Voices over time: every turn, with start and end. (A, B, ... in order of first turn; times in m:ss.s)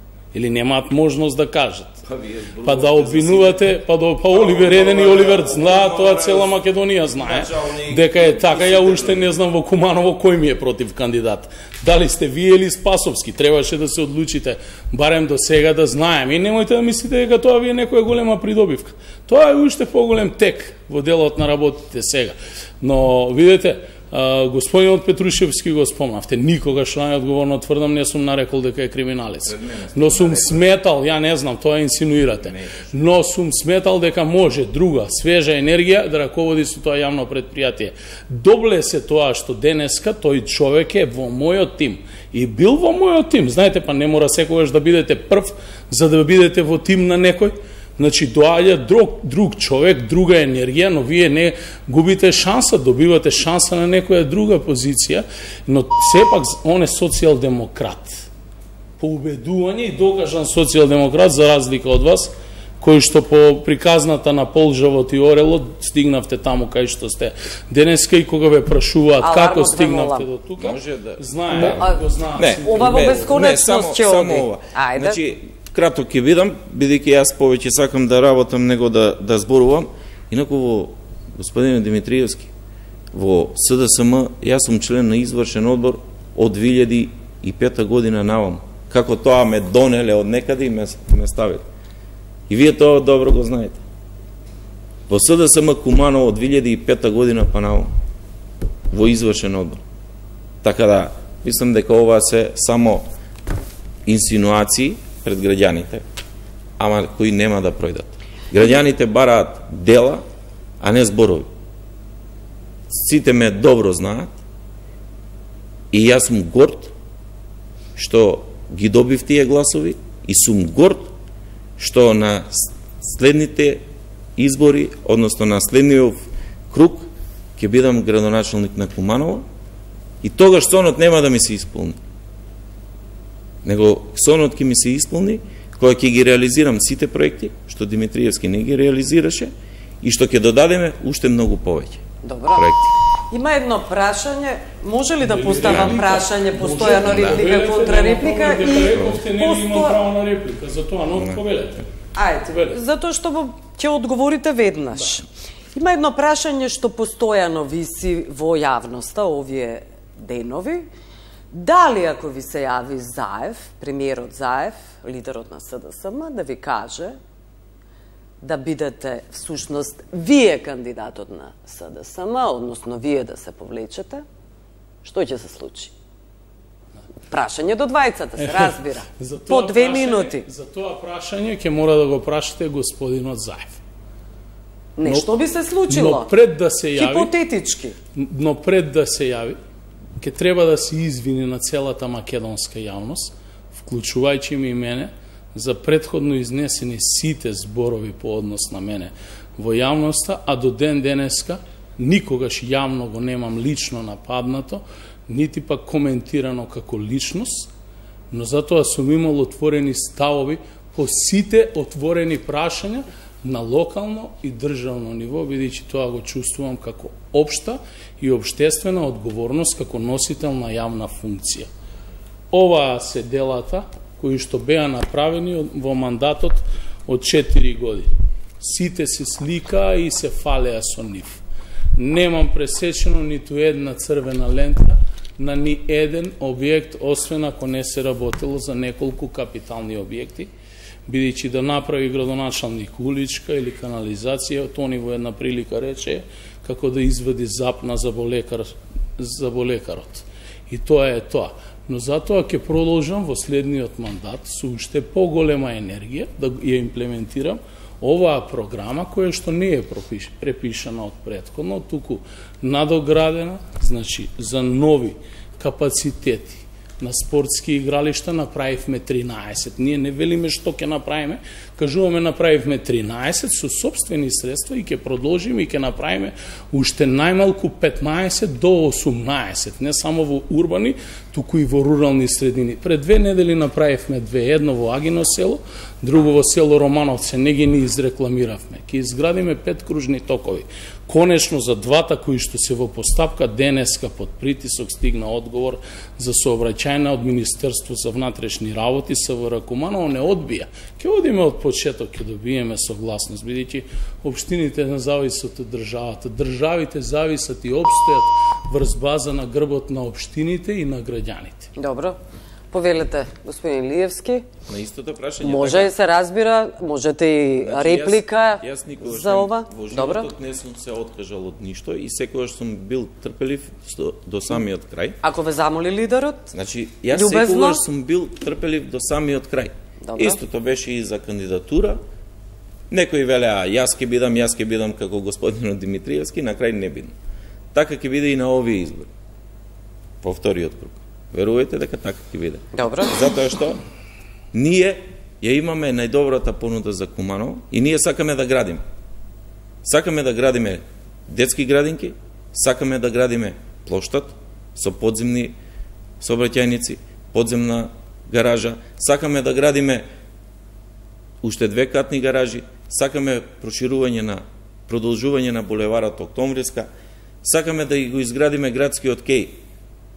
0:00.3-0:02.0 A
0:02.0-0:03.6 B
0:02.6-0:58.3 A
0:04.3-0:06.5 B
0:07.2-0:09.3 B
0:29.5-0:30.6 B
0:32.4-0:32.9 B
0:59.0-1:13.4 A
1:09.2-1:10.3 C
1:10.6-1:22.5 B
1:11.5-1:15.2 C
1:23.1-1:31.6 B
1:32.5-1:33.8 B
1:35.1-1:37.9 B
1:38.9-1:39.8 B
1:40.6-1:43.0 B
1:44.1-1:46.0 B
1:46.8-1:50.2 B
1:50.8-1:51.5 B
1:52.9-1:54.3 B
1:55.9-1:56.9 B
1:58.0-2:01.1 B
2:01.8-2:03.8 B
2:04.4-2:09.4 B
2:10.2-2:12.0 B
2:13.6-2:19.5 B
2:20.0-2:22.9 B
2:22.2-2:22.7 C
2:23.3-2:30.0 C
2:25.2-2:31.8 A
2:25.7-2:26.0 B
2:26.9-2:27.4 B
2:31.2-2:31.4 B
2:32.2-2:40.9 C
2:32.5-2:32.8 A
2:41.5-2:47.2 C
2:48.4-2:54.2 C
2:55.0-2:55.9 C
2:57.3-3:00.4 C
2:58.4-3:03.8 A
3:05.0-3:06.3 C
3:05.9-3:07.3 A
3:07.0-3:08.0 C
3:08.2-3:09.6 A
3:10.2-3:27.7 A
3:28.3-3:41.7 A
3:42.5-3:51.4 A
3:52.0-4:00.5 A
4:01.1-5:11.7 A
5:11.8-5:12.2 C
5:12.7-5:14.5 C
5:14.7-5:15.9 B
5:15.4-5:20.3 C
5:17.6-5:25.2 B
5:25.2-5:26.5 C
5:26.5-5:32.0 B
5:27.1-5:27.8 C
5:30.0-5:30.4 C
5:32.9-5:37.2 B
5:37.7-5:39.1 B
5:40.2-5:43.8 B
5:42.7-5:43.2 C
5:44.5-5:48.8 B
5:49.8-5:55.6 B
5:56.2-6:00.0 B
6:01.4-6:06.9 B
6:07.4-6:09.6 B